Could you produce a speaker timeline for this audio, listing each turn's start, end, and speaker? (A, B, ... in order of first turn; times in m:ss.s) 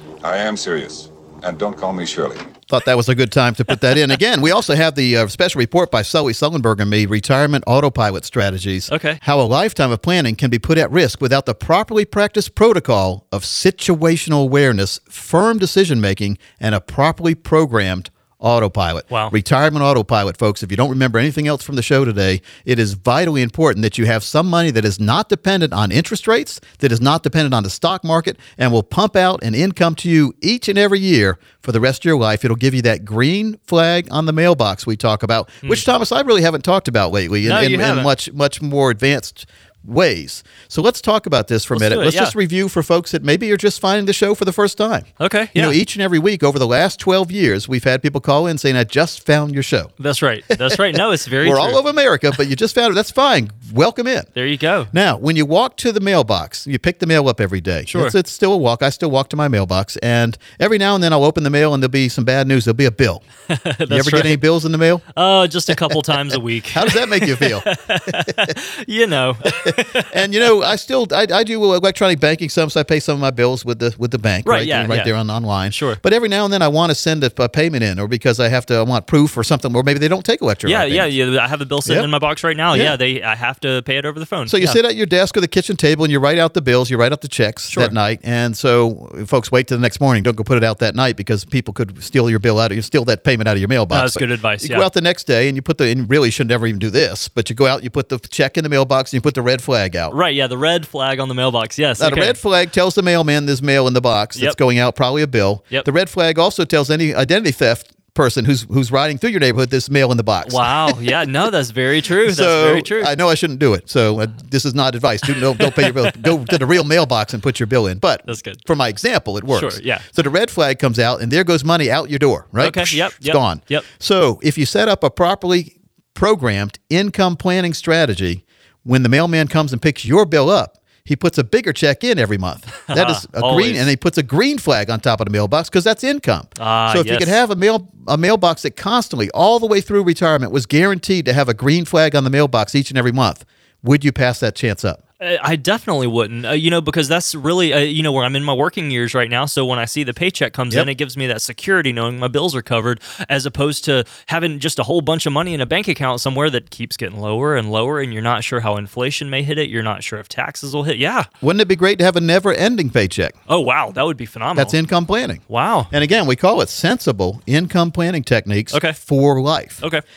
0:00.2-0:02.5 A
0:02.7-0:49.9 B
0:08.9-0:09.2 C
0:37.4-0:38.1 C
0:41.7-0:42.3 C
0:45.2-0:45.8 C
0:50.0-0:51.8 C
0:50.5-0:54.3 B
0:54.4-0:54.9 C
0:54.9-1:03.2 B
0:57.9-0:58.1 C
1:03.5-1:04.4 C
1:03.9-1:05.0 B
1:05.2-1:10.1 C
1:05.7-1:08.5 B
1:09.5-1:21.1 B
1:14.4-1:15.1 C
1:15.7-1:16.0 C
1:20.6-1:24.8 C
1:24.5-1:40.1 B
1:33.9-1:34.9 C
1:40.1-1:42.4 C
1:42.0-1:51.0 B
1:50.4-1:53.1 C
1:52.2-2:25.0 B
1:55.6-1:56.2 C
1:58.3-1:58.6 C
1:59.5-2:00.0 C
2:02.6-2:03.9 C
2:12.9-2:13.8 C
2:16.6-2:17.4 C
2:25.2-2:41.3 C
2:41.4-2:43.4 B
2:43.5-2:44.7 C
2:44.5-2:49.8 B
2:45.5-2:45.9 C
2:48.7-2:49.0 C